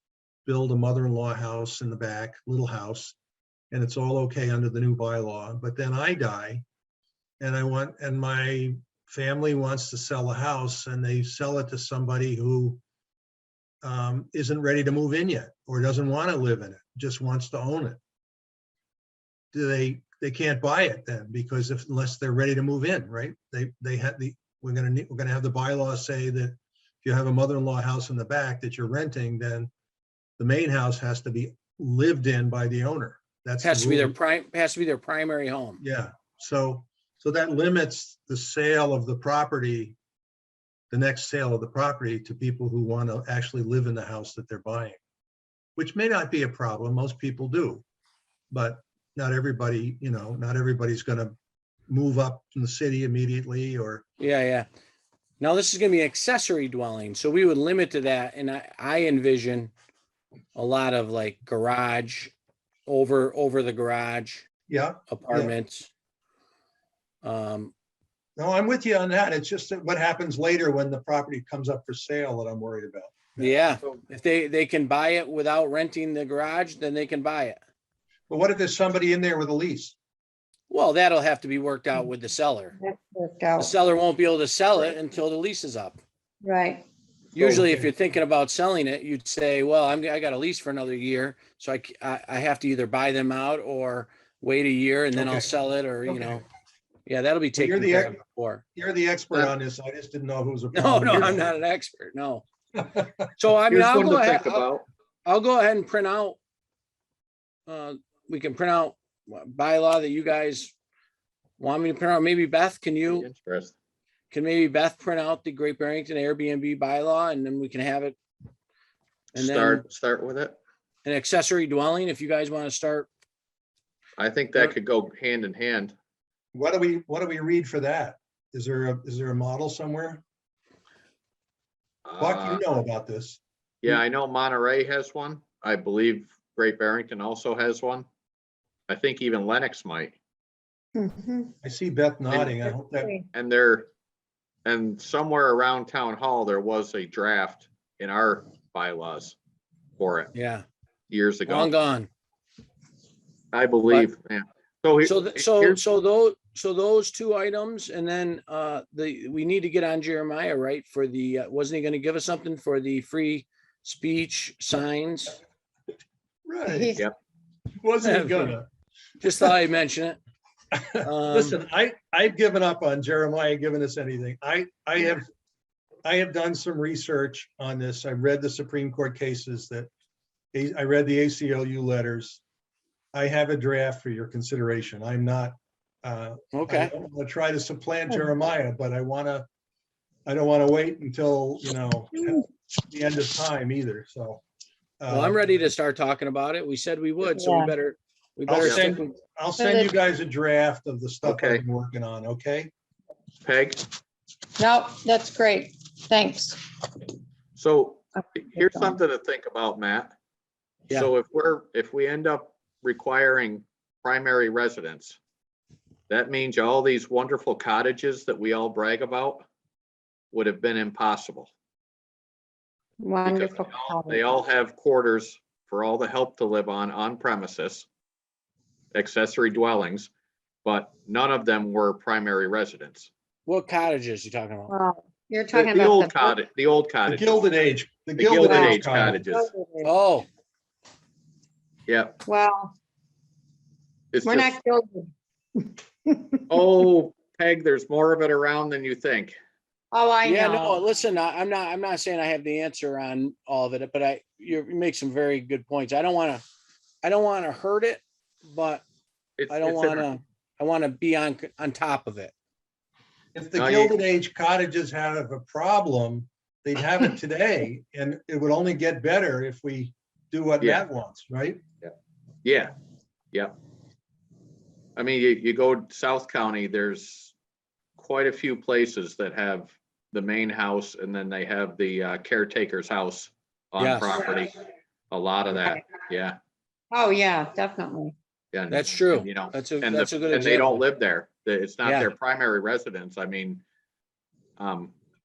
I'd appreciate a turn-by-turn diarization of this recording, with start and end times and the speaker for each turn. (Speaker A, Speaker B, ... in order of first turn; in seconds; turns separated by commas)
Speaker A: 0.5-3.2, Speaker A: 3.7-6.7, Speaker A: 7.4-12.8, Speaker A: 13.8-18.0, Speaker A: 19.5-29.7, Speaker A: 30.4-34.1, Speaker B: 33.6-35.8, Speaker A: 35.8-40.0, Speaker A: 40.9-45.0, Speaker A: 45.8-47.9, Speaker A: 48.5-51.4, Speaker A: 51.9-54.0, Speaker B: 54.2-54.7, Speaker B: 55.4-59.7, Speaker B: 60.5-62.3, Speaker B: 62.9-64.5, Speaker A: 64.7-65.5, Speaker B: 65.1-65.9, Speaker B: 67.2-67.7, Speaker A: 68.4-73.6, Speaker B: 73.4-77.6, Speaker A: 78.3-80.0, Speaker B: 80.7-82.8, Speaker C: 82.8-83.7, Speaker B: 83.6-86.0, Speaker C: 86.4-86.9, Speaker B: 87.3-96.4, Speaker A: 87.4-87.9, Speaker A: 95.1-95.5, Speaker A: 96.1-96.4, Speaker B: 97.1-98.6, Speaker A: 97.6-98.2, Speaker A: 98.8-101.6, Speaker B: 100.7-102.4, Speaker A: 102.8-103.3, Speaker B: 103.4-104.7, Speaker D: 103.7-104.8, Speaker B: 105.3-106.4, Speaker B: 107.7-110.7, Speaker B: 111.6-113.3, Speaker D: 113.1-113.7, Speaker B: 114.3-118.2, Speaker B: 119.3-119.8, Speaker D: 119.3-120.6, Speaker B: 121.0-123.1, Speaker D: 124.2-126.0, Speaker A: 126.5-130.2, Speaker D: 132.1-132.6, Speaker A: 132.2-134.0, Speaker D: 133.8-138.1, Speaker D: 138.9-140.2, Speaker C: 140.9-141.5, Speaker A: 141.6-143.1, Speaker D: 142.3-142.5, Speaker C: 142.9-143.2, Speaker D: 143.3-143.9, Speaker D: 144.7-149.4, Speaker D: 150.0-150.3, Speaker B: 150.3-150.7, Speaker D: 151.1-151.7, Speaker B: 151.5-152.1, Speaker D: 153.5-155.8, Speaker B: 155.0-165.4, Speaker A: 166.5-166.9, Speaker C: 166.7-167.1, Speaker A: 167.8-168.7, Speaker B: 168.0-168.6, Speaker B: 169.2-170.2, Speaker A: 170.7-175.3, Speaker B: 171.0-171.6, Speaker A: 176.1-179.9, Speaker A: 180.5-182.4, Speaker A: 183.1-189.5, Speaker B: 186.5-186.9, Speaker A: 190.3-194.4, Speaker A: 195.0-195.7, Speaker B: 195.1-199.2, Speaker C: 197.3-197.7, Speaker A: 198.5-202.7, Speaker D: 198.6-198.9, Speaker C: 199.6-199.9, Speaker D: 201.2-201.6, Speaker D: 203.4-203.9, Speaker C: 204.6-206.6, Speaker D: 207.6-210.1, Speaker D: 210.9-215.2, Speaker D: 216.1-219.5, Speaker D: 220.3-221.5, Speaker C: 223.0-224.4, Speaker D: 223.2-227.9, Speaker D: 228.9-230.1, Speaker D: 230.6-233.1, Speaker B: 233.5-234.7, Speaker C: 234.7-236.3, Speaker D: 235.5-237.5, Speaker A: 237.1-239.2, Speaker D: 238.2-239.5, Speaker C: 238.2-239.9, Speaker B: 239.8-240.3, Speaker D: 241.9-242.2, Speaker C: 242.2-242.8, Speaker D: 244.1-244.6, Speaker C: 244.2-246.5, Speaker D: 246.5-249.4, Speaker C: 249.9-250.8, Speaker B: 250.2-256.4, Speaker B: 257.0-258.8, Speaker D: 259.4-260.1, Speaker B: 259.5-262.3, Speaker A: 263.4-271.6, Speaker D: 263.6-264.0, Speaker D: 270.6-270.9, Speaker D: 272.4-272.7, Speaker D: 275.0-277.4, Speaker D: 278.0-284.6, Speaker B: 283.8-284.2, Speaker D: 285.1-286.4, Speaker C: 286.9-288.1, Speaker D: 288.5-293.6, Speaker B: 288.7-290.8, Speaker B: 291.8-292.1, Speaker D: 294.6-294.9